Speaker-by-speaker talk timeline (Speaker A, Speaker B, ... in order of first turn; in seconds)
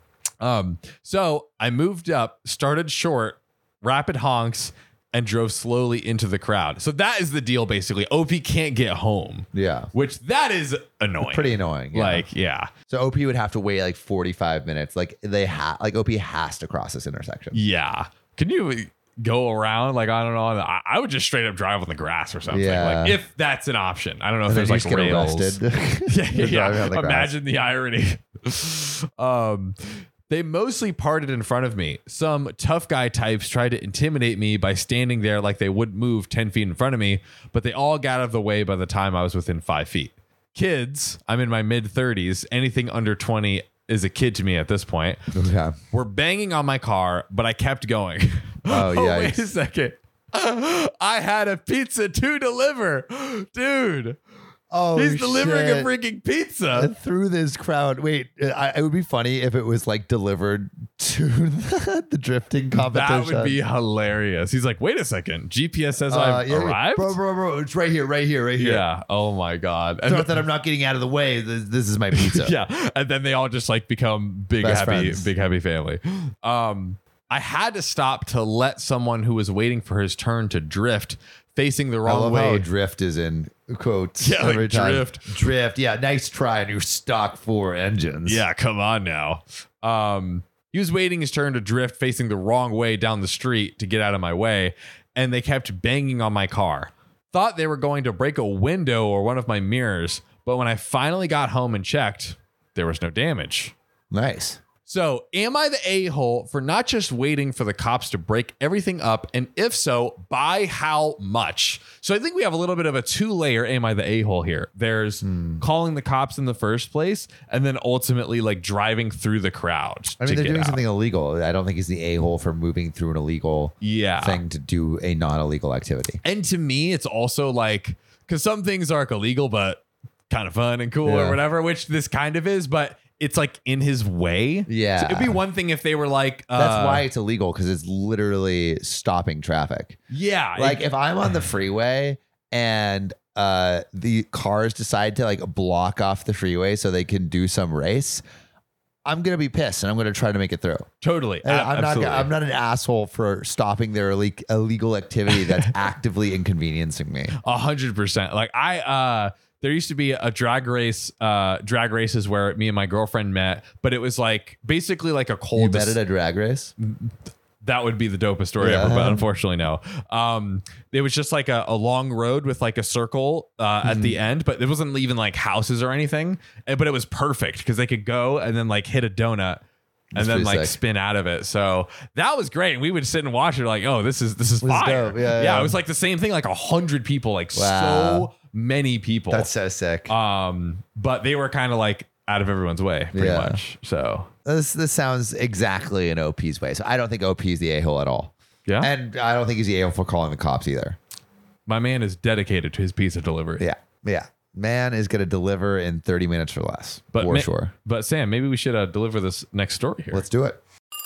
Speaker A: 0.4-12.7, 17.5-45.2, 45.9-54.2, 54.9-56.9, 62.7-67.2, 68.6-70.4, 72.1-82.7, 84.2-85.3, 88.2-103.7, 104.8-120.8, 123.8-124.4, 126.2-137.1, 140.1-140.8, 151.0-152.3, 157.4-166.0, 166.8-179.6, 180.2-189.5, 190.1-194.3, 201.7-203.6, 207.1-210.2
Speaker B: 9.5-9.9, 11.2-12.2, 12.9-17.6, 22.5-23.2, 24.5-27.3, 45.3-45.8, 48.6-49.4, 54.7-55.9, 56.7-63.6, 66.1-68.8, 70.0-72.5, 74.6-75.3, 82.0-88.4, 104.1-104.6, 115.2-115.6, 120.2-126.2, 131.0-131.4, 134.7-135.4, 136.5-140.0, 140.6-148.2, 149.1-150.9, 151.4-157.3, 165.5-166.7, 168.6-169.2, 173.8-174.2, 180.1-180.8, 184.6-185.8, 187.5-188.3, 189.3-190.1, 193.1-193.6, 194.4-201.0, 203.6-207.7, 210.1-210.6